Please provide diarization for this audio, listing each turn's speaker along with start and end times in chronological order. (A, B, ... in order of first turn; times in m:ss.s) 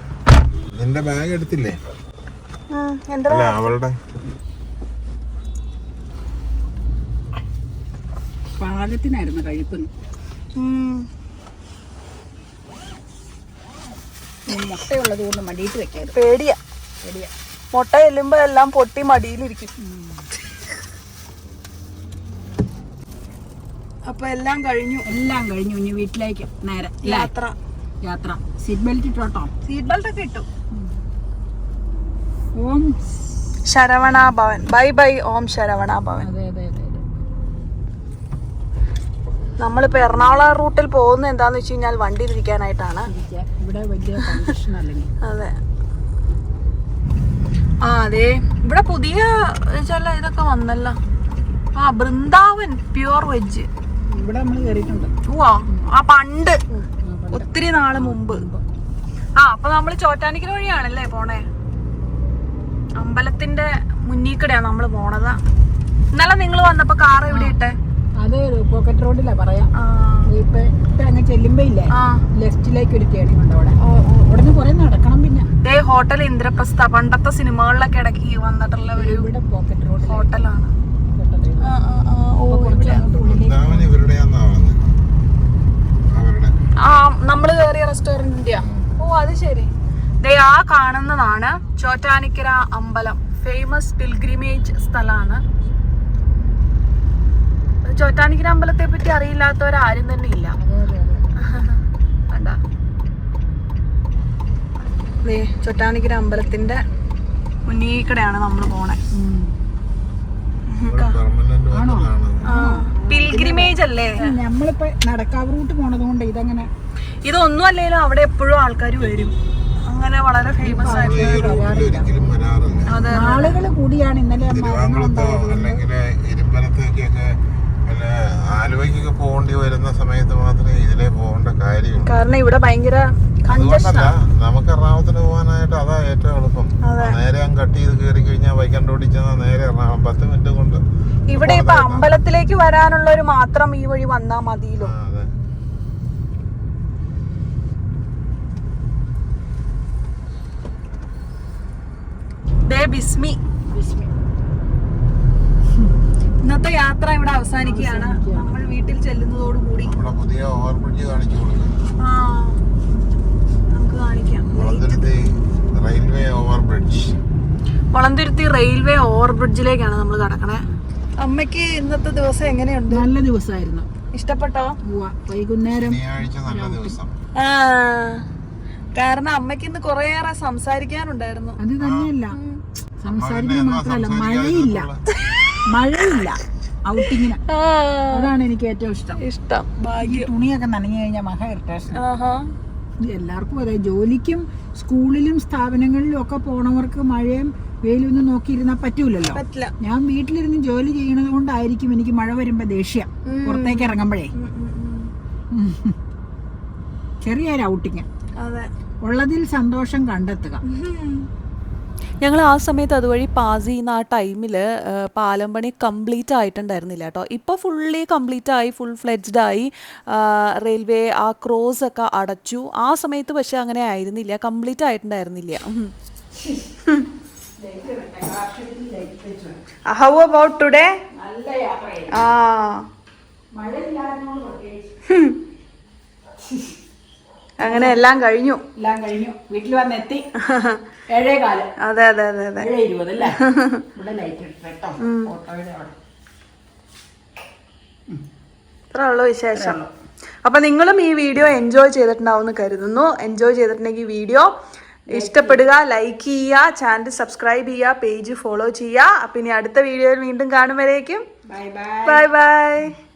0:00.7-0:01.8 A
0:02.7-0:03.7 B
0:03.3-0:04.0 A
0:08.6-0:09.9 C
0:10.6-0:11.0 B
0:14.5-0:16.2 C
0:16.1-0:16.6 B
0:17.0-0:17.3 C
0:17.7-0:19.7 B
0:19.8-0:20.3 C
0:24.0-0:25.0 B
0:25.0-0:27.3 C
0:27.0-0:27.5 B
0:28.0-0:29.5 C
0:29.6-0:30.5 B
0:32.6-0:33.0 C
0:33.7-0:36.2 B
0:34.0-0:34.7 C
0:36.2-0:37.0 C
0:39.6-0:43.1 B
0:43.1-0:45.1 C
0:45.2-0:45.6 B
0:47.8-0:51.0 B
0:51.7-0:53.7 B
0:54.1-0:55.1 C
0:55.3-0:58.4 B
0:57.0-0:58.6 C
0:59.4-1:01.4 B
1:03.0-1:05.4 B
1:06.1-1:07.7 B
1:07.3-1:07.6 C
1:08.2-1:09.7 C
1:09.8-1:10.3 B
1:10.3-1:15.5 C
1:12.0-1:12.2 B
1:13.8-1:14.3 B
1:15.6-1:19.2 B
1:19.0-1:20.3 C
1:20.0-1:20.7 B
1:21.1-1:21.7 C
1:21.6-1:23.0 B
1:22.5-1:23.9 C
1:22.9-1:24.8 A
1:26.1-1:26.5 A
1:26.8-1:29.7 B
1:28.6-1:28.9 A
1:30.2-1:35.4 B
1:37.8-1:40.6 B
1:40.6-1:41.3 C
1:41.4-1:42.6 B
1:45.2-1:46.8 B
1:47.7-1:49.0 B
1:49.1-1:49.5 C
1:50.8-1:51.1 B
1:50.8-1:52.4 A
1:51.7-1:56.7 C
1:52.4-1:54.2 B
1:57.2-1:59.3 B
1:59.9-2:01.6 B
2:00.6-2:02.1 C
2:00.8-2:03.0 A
2:02.9-2:03.6 B
2:03.1-2:05.8 C
2:04.4-2:12.2 A
2:12.0-2:14.1 B
2:13.5-2:22.1 A
2:16.8-2:17.2 B
2:21.3-2:24.9 B
2:24.8-2:25.3 A
2:32.7-2:33.4 B
2:33.7-2:34.1 C
2:36.4-2:39.9 B
2:37.6-2:38.5 C
2:39.8-2:41.7 A
2:42.0-2:42.6 B
2:43.7-2:45.0 B
2:44.5-2:47.2 A
2:47.9-2:50.6 B
2:51.2-2:53.1 B
2:52.9-2:53.9 C
2:54.1-2:54.7 B
2:54.9-2:57.0 C
2:55.7-2:57.1 A
2:57.4-2:58.2 B
2:58.9-3:01.6 B
3:01.6-3:02.4 C
3:01.8-3:02.1 A
3:02.3-3:02.6 B
3:03.0-3:04.9 C
3:03.2-3:05.0 A
3:05.7-3:07.4 C
3:07.4-3:08.3 B
3:08.1-3:09.2 C
3:09.2-3:10.3 B
3:10.0-3:12.0 C
3:11.9-3:12.5 B
3:13.0-3:24.3 C
3:19.2-3:19.7 B
3:23.2-3:25.1 B
3:25.5-3:25.9 C
3:27.2-3:28.0 C
3:28.4-3:28.7 B
3:29.0-3:30.6 C
3:30.6-3:31.3 B
3:32.2-3:45.9 D
3:47.6-3:49.6 C
3:49.9-3:50.9 B
3:51.1-3:52.2 C
3:52.1-3:52.8 B
3:53.5-3:54.9 C
3:55.1-3:55.4 B
3:57.6-3:58.6 B
3:57.6-3:58.0 C
3:58.8-4:00.2 C
4:00.4-4:00.8 B
4:01.1-4:01.7 C
4:01.8-4:02.7 B
4:02.6-4:03.4 C
4:03.4-4:03.8 B
4:04.0-4:05.9 C
4:05.0-4:05.3 B
4:08.9-4:09.8 B
4:09.5-4:09.8 C
4:10.4-4:14.5 B
4:15.1-4:15.6 C
4:15.1-4:21.2 B
4:21.5-4:22.3 C
4:22.0-4:22.9 B